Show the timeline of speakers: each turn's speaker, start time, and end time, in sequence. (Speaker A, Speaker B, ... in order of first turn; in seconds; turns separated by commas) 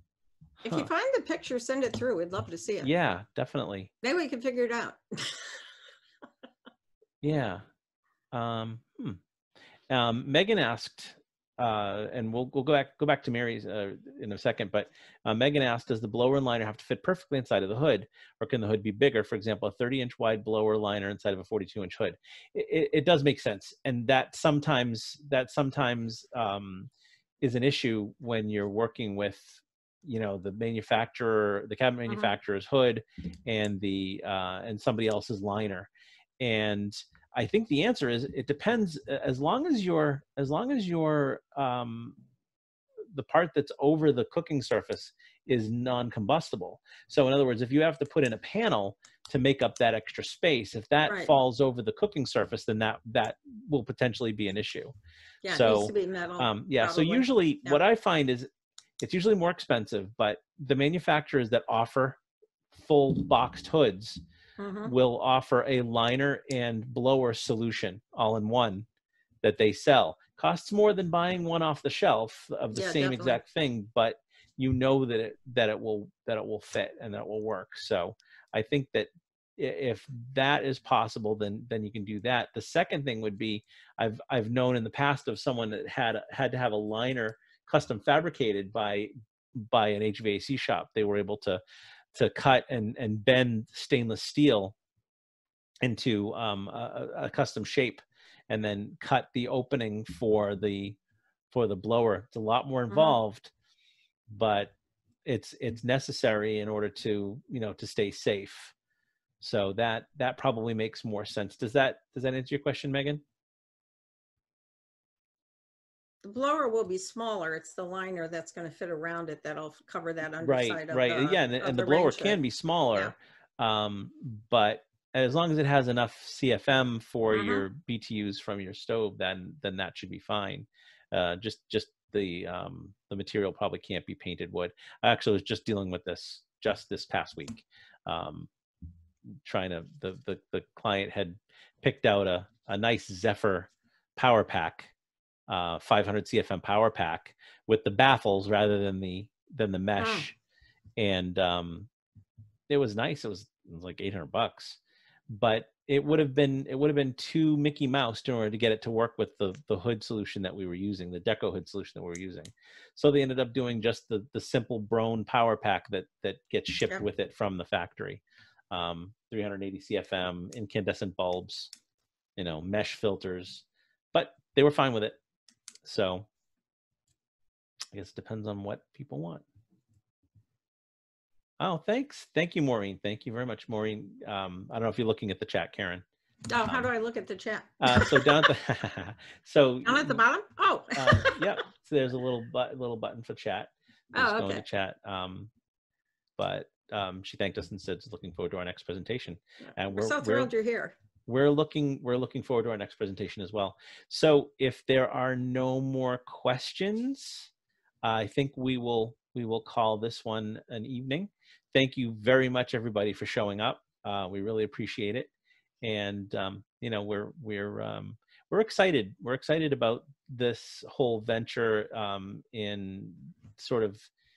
Speaker A: 0.6-2.9, Speaker B: 2.8-3.9, Speaker A: 4.0-5.6, Speaker B: 7.2-7.6, Speaker B: 8.3-9.2, Speaker B: 9.9-26.9, Speaker B: 27.4-35.9, Speaker A: 32.1-32.3, Speaker B: 36.4-42.2, Speaker B: 43.1-54.9, Speaker A: 51.1-51.4, Speaker A: 55.4-57.8, Speaker B: 55.5-58.5, Speaker B: 59.0-62.2, Speaker B: 62.7-64.2, Speaker A: 64.6-64.9, Speaker B: 64.8-68.9, Speaker B: 69.4-91.6, Speaker A: 72.7-73.4, Speaker B: 92.1-94.7, Speaker B: 95.8-101.0, Speaker B: 101.5-103.5, Speaker A: 102.9-103.2, Speaker B: 104.3-104.7, Speaker B: 105.2-108.7, Speaker B: 109.4-113.2, Speaker A: 116.2-122.4, Speaker B: 120.4-138.5, Speaker A: 127.3-127.6, Speaker B: 139.4-144.9, Speaker B: 145.5-150.3, Speaker A: 150.0-150.3, Speaker B: 151.0-151.9, Speaker B: 152.7-154.8, Speaker B: 155.3-171.7, Speaker B: 172.4-175.2, Speaker B: 175.8-176.3, Speaker B: 177.9-179.4, Speaker B: 181.6-186.0, Speaker A: 186.5-188.4, Speaker B: 187.8-190.2, Speaker A: 189.8-191.4, Speaker B: 190.9-195.5, Speaker A: 194.1-194.6, Speaker B: 196.4-200.5, Speaker A: 199.9-200.9, Speaker B: 201.2-207.5, Speaker B: 208.0-215.3, Speaker B: 215.8-224.1